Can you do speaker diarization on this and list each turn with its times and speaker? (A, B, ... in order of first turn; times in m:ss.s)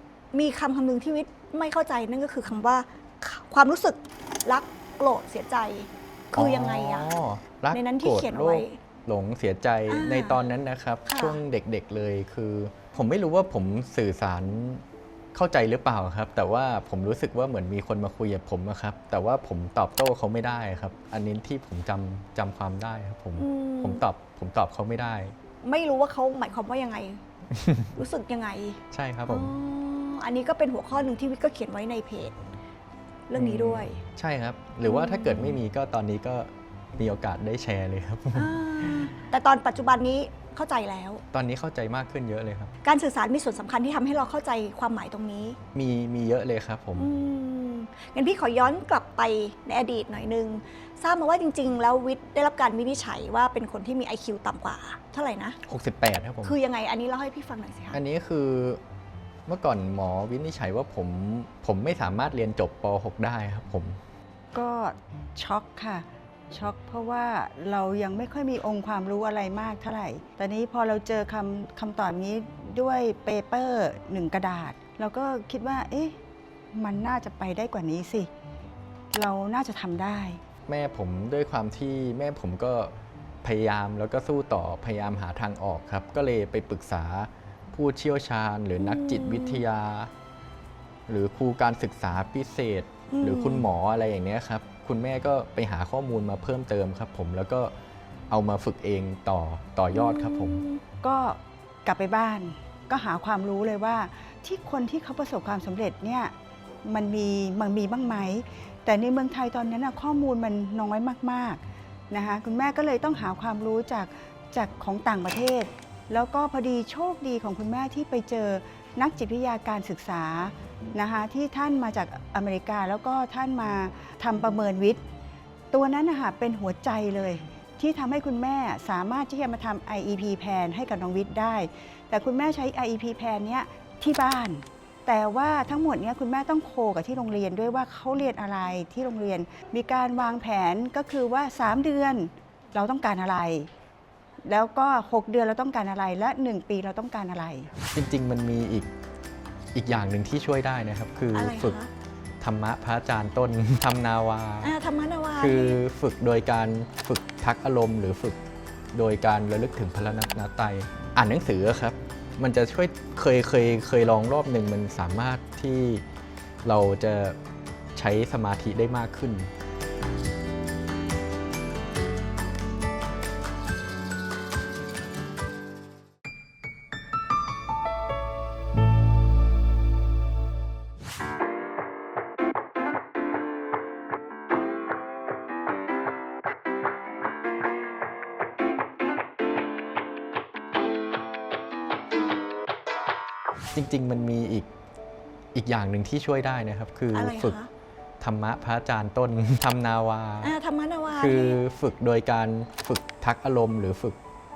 0:00.3-0:07.1 A
0:06.3-0:14.8 B
0:07.7-0:08.8 A
0:09.9-0:10.4 A
0:11.1-0:11.4 A
0:15.3-0:25.3 B
0:23.4-0:24.0 A
0:25.6-0:27.2 A
0:27.5-0:27.9 B
0:27.9-0:32.4 A
0:28.9-0:29.5 B
0:33.3-0:34.0 A
0:33.3-0:39.1 B
0:34.8-0:35.6 A
0:38.3-0:41.2 A
0:41.3-0:42.7 B
0:42.8-0:45.6 A
0:45.7-0:47.1 B
0:47.0-0:55.6 A
0:55.6-0:56.6 B
0:56.4-0:58.0 A
0:57.9-0:58.8 B
0:59.4-1:04.0 B
1:04.5-1:16.2 C
1:16.7-1:18.3 C
1:19.1-1:20.4 C
1:20.7-1:22.9 B
1:23.4-1:30.1 B
1:28.8-1:29.6 A
1:31.1-1:37.7 B
1:33.1-1:33.7 A
1:38.3-1:40.6 B
1:39.9-1:40.8 A
1:41.0-1:46.3 C
1:46.8-1:51.6 C
1:52.1-2:05.0 C
2:05.7-2:23.7 C
2:24.4-2:27.7 C
2:27.9-2:28.9 B
2:29.7-2:31.8 B
2:31.3-2:31.9 A
2:32.4-2:34.7 B
2:34.6-2:35.8 A
2:35.4-2:38.4 B
2:38.9-2:46.0 B
2:46.6-2:47.4 B
2:48.0-2:49.5 B
3:13.7-3:14.7 B
3:15.5-3:17.6 B
3:17.1-3:17.7 A
3:18.2-3:20.6 B
3:20.4-3:21.6 A
3:21.2-3:24.2 B